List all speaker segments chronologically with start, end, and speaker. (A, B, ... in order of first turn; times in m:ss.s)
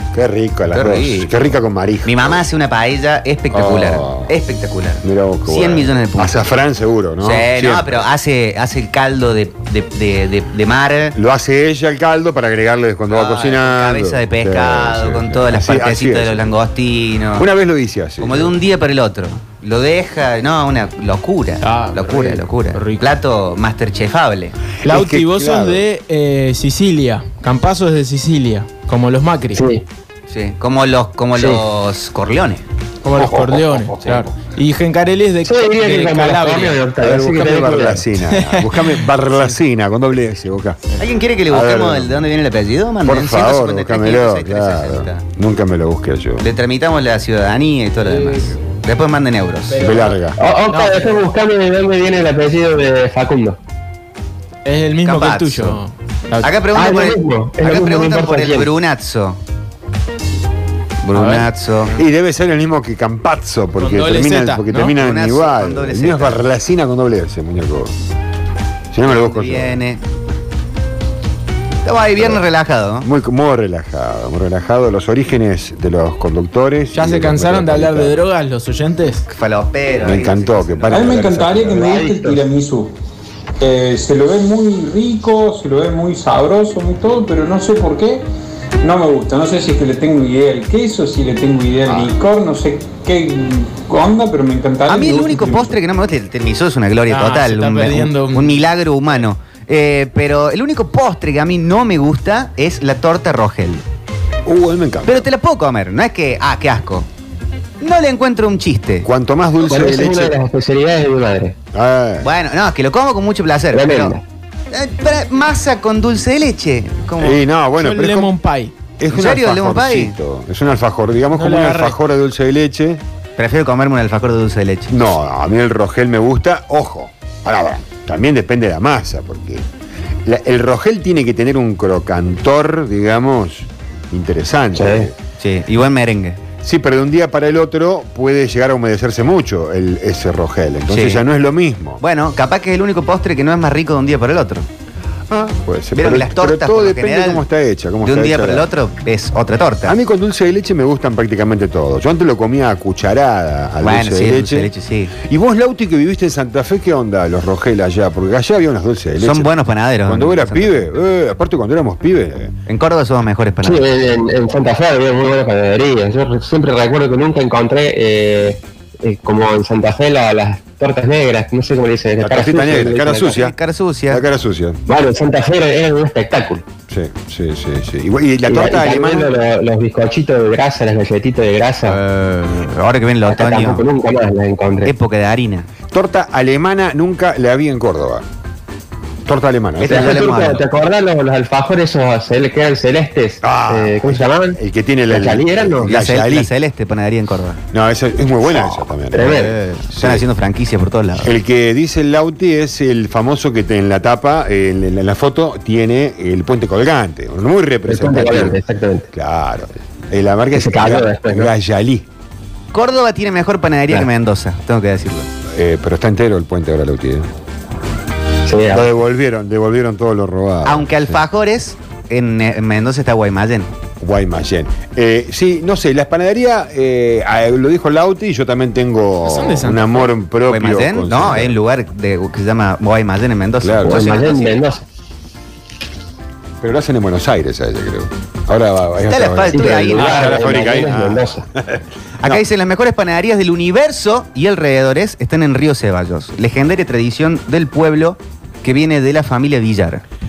0:00.1-0:02.4 A
0:00.7-0:01.3 B
0:02.0-0:06.4 B
0:03.5-0:04.3 A
0:05.0-0:08.0 A
0:07.2-0:11.2 B
0:11.1-0:16.4 A
0:13.1-0:17.5 B
0:17.4-0:18.5 A
0:18.2-0:24.5 B
0:21.6-0:23.0 C
0:24.8-0:25.8 A
0:24.8-0:29.6 C
0:29.5-0:29.8 D
0:30.3-0:32.6 B
0:31.3-0:31.6 D
0:33.0-0:36.8 C
0:33.1-0:34.3 A
0:35.4-0:38.0 D
0:37.0-0:42.2 A
0:38.2-0:38.9 C
0:41.0-0:45.2 B
0:43.0-0:46.5 A
0:46.4-0:49.8 B
0:49.8-0:50.4 A
0:50.4-0:53.6 D
0:50.7-0:51.2 C
0:54.6-0:56.5 C
0:55.0-0:55.8 B
0:56.4-0:59.4 B
0:56.7-0:58.7 D
1:01.0-1:01.9 B
1:01.1-1:01.5 C
1:02.0-1:07.9 A
1:03.8-1:04.9 C
1:05.0-1:06.4 B
1:08.9-1:09.8 A
1:09.0-1:10.0 B
1:11.8-1:13.1 B
1:12.2-1:12.4 A
1:13.0-1:18.2 A
1:16.9-1:19.2 C
1:19.3-1:21.2 B
1:20.0-1:22.0 A
1:20.9-1:22.9 E
1:21.6-1:22.4 D
1:23.6-1:28.2 E
1:28.8-1:35.8 E
1:34.9-1:43.8 B
1:37.1-1:38.6 C
1:44.4-1:45.2 A
1:45.0-1:47.1 B
1:47.8-1:49.1 B
1:49.0-1:50.4 A
1:49.6-1:51.6 D
1:51.7-1:52.3 A
1:52.2-1:54.2 B
1:53.7-1:54.2 D
1:54.7-1:57.4 B
1:57.2-1:58.4 A
1:57.8-1:58.7 C
1:59.0-2:03.0 A
1:59.1-2:00.1 B
2:01.3-2:02.0 C
2:03.4-2:04.9 B
2:04.9-2:09.6 A
2:10.2-2:15.2 A
2:14.7-2:15.1 D
2:15.4-2:16.4 B
2:16.6-2:22.0 A
2:20.9-2:21.2 B
2:22.0-2:24.7 B
2:25.3-2:28.7 A
2:25.9-2:27.4 B
2:28.0-2:30.0 B
2:29.8-2:34.7 A
2:33.8-2:35.1 B
2:35.2-2:39.5 A
2:39.2-2:40.8 B
2:40.0-2:42.5 A
2:42.7-2:43.8 B
2:43.6-2:53.4 D
2:52.2-2:53.5 A
2:53.2-2:54.2 B
2:54.1-2:54.8 A
2:54.9-2:56.6 D
2:56.9-2:59.4 A
2:58.5-3:02.0 D
3:01.8-3:03.8 B
3:03.2-3:04.9 D
3:04.8-3:05.7 B
3:05.9-3:08.2 A
3:09.2-3:10.5 A
3:09.8-3:10.6 B
3:09.9-3:15.9 D
3:13.4-3:16.5 A
3:15.8-3:17.6 B
3:17.7-3:20.2 A
3:19.1-3:19.6 D
3:19.2-3:21.3 B
3:21.2-3:28.6 A
3:27.9-3:29.1 D
3:29.1-3:32.0 A
3:30.5-3:31.5 D
3:32.7-3:35.3 B
3:35.5-3:37.3 A
3:38.4-3:38.9 D
3:38.7-3:41.2 A
3:40.6-3:43.7 B
3:44.0-3:51.6 A
3:49.2-3:50.1 C
3:50.5-3:54.6 B
3:53.6-3:54.1 A
3:53.9-3:54.8 D
3:56.6-4:02.4 A
3:59.1-4:00.4 B
3:59.5-4:01.4 D
4:02.2-4:10.0 B